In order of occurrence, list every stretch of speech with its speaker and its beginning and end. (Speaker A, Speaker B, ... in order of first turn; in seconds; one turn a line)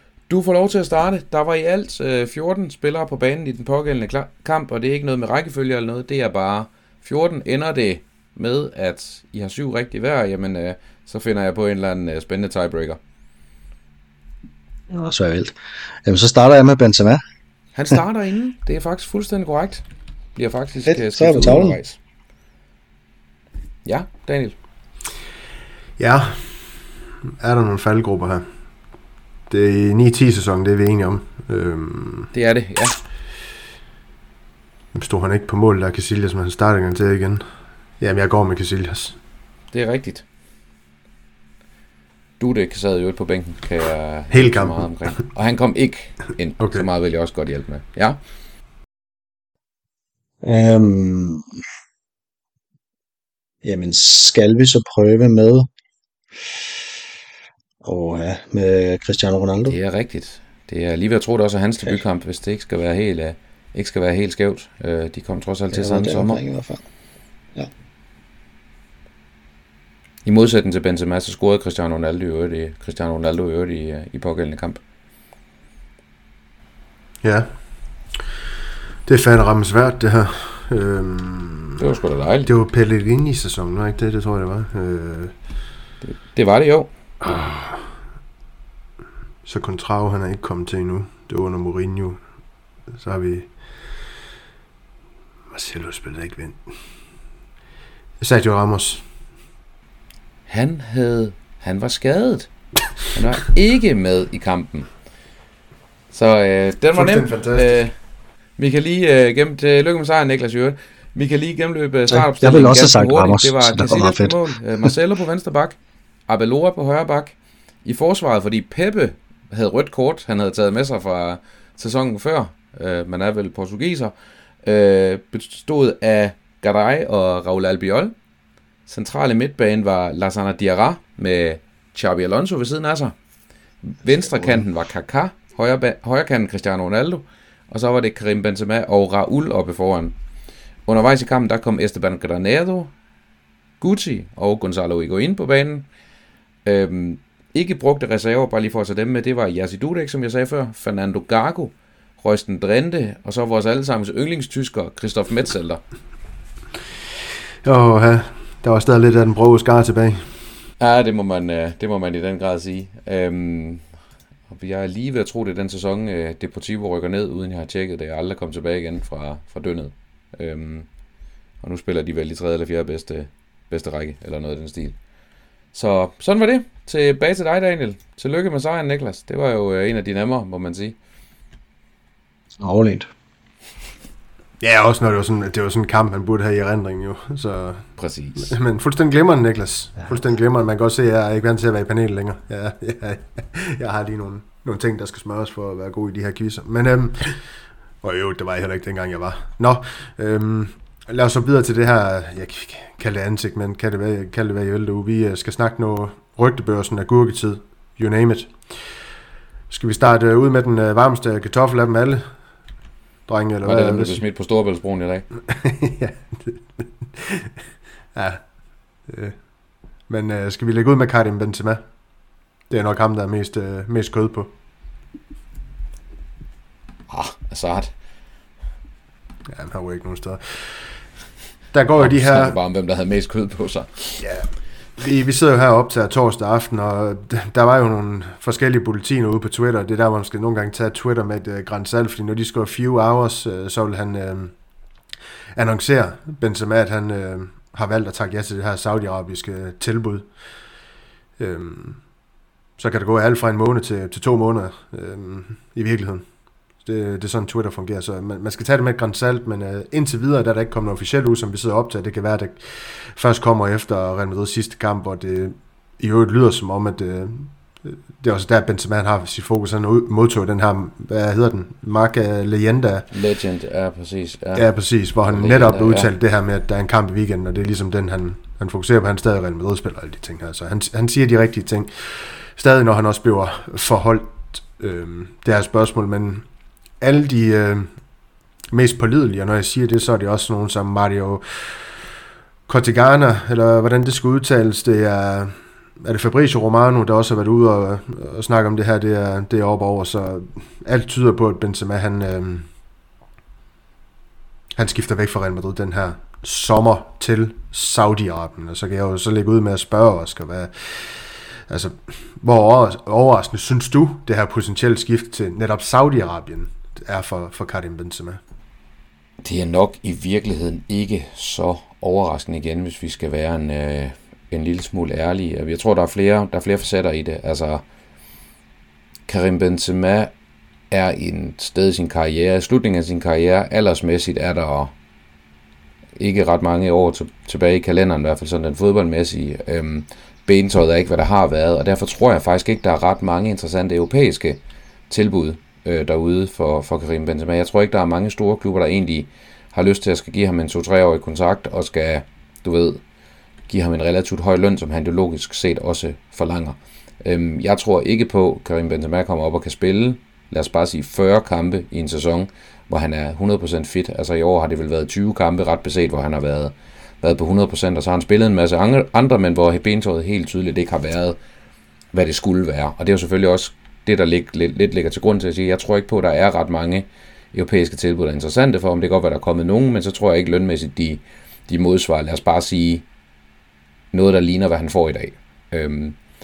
Speaker A: 0.3-13.0
Speaker B: 14.9-17.2
Speaker A: 17.7-22.0
Speaker B: 20.9-21.8
Speaker A: 23.8-24.6
Speaker C: 26.0-26.8
Speaker C: 27.4-28.5
Speaker C: 29.5-32.3
Speaker A: 32.3-33.0
Speaker C: 34.9-37.5
Speaker C: 38.0-39.2
Speaker A: 39.7-40.2
Speaker A: 42.4-48.2
Speaker C: 44.3-45.2
Speaker C: 46.6-46.9
Speaker B: 50.4-51.5
Speaker B: 53.6-55.7
Speaker B: 57.8-59.8
Speaker A: 59.7-66.4
Speaker B: 65.7-66.8
Speaker A: 70.2-74.8
Speaker C: 77.2-77.5
Speaker C: 79.0-81.8
Speaker A: 81.8-82.5
Speaker C: 82.5-85.3
Speaker A: 86.0-86.9
Speaker C: 87.2-87.8
Speaker C: 89.5-92.2
Speaker C: 93.0-93.5
Speaker C: 95.5-96.6
Speaker C: 98.2-99.0
Speaker A: 100.5-102.5
Speaker A: 103.0-104.9
Speaker A: 106.1-107.9
Speaker C: 106.9-107.8
Speaker A: 108.6-124.1
Speaker B: 112.1-114.9
Speaker A: 124.6-128.1
Speaker A: 128.9-133.1
Speaker A: 133.8-140.1
Speaker A: 140.8-142.9
Speaker A: 143.8-145.8
Speaker A: 146.6-155.8
Speaker C: 157.6-160.3
Speaker A: 160.8-163.8
Speaker A: 164.5-170.9
Speaker A: 171.6-175.0
Speaker A: 175.7-181.0
Speaker B: 182.6-183.1
Speaker C: 184.6-197.4
Speaker A: 188.0-188.5
Speaker C: 198.0-208.7
Speaker C: 209.7-212.3
Speaker C: 213.3-214.2
Speaker A: 213.6-215.3
Speaker C: 215.5-217.5
Speaker C: 218.1-219.4
Speaker C: 220.1-221.8
Speaker C: 222.7-224.5
Speaker A: 227.1-227.9
Speaker C: 229.5-231.0
Speaker C: 231.7-232.6
Speaker A: 232.0-234.2
Speaker C: 234.2-244.5
Speaker C: 245.5-250.3
Speaker C: 251.4-252.0
Speaker C: 252.8-273.1
Speaker A: 273.1-274.6
Speaker C: 274.6-286.5
Speaker A: 275.2-276.1
Speaker C: 287.0-287.9
Speaker C: 288.7-291.9
Speaker C: 292.7-302.7
Speaker C: 304.7-318.4
Speaker A: 319.4-327.8
Speaker A: 329.3-330.3
Speaker A: 330.9-334.9
Speaker A: 336.2-353.0
Speaker A: 353.7-371.4
Speaker A: 372.1-383.0
Speaker A: 384.1-386.2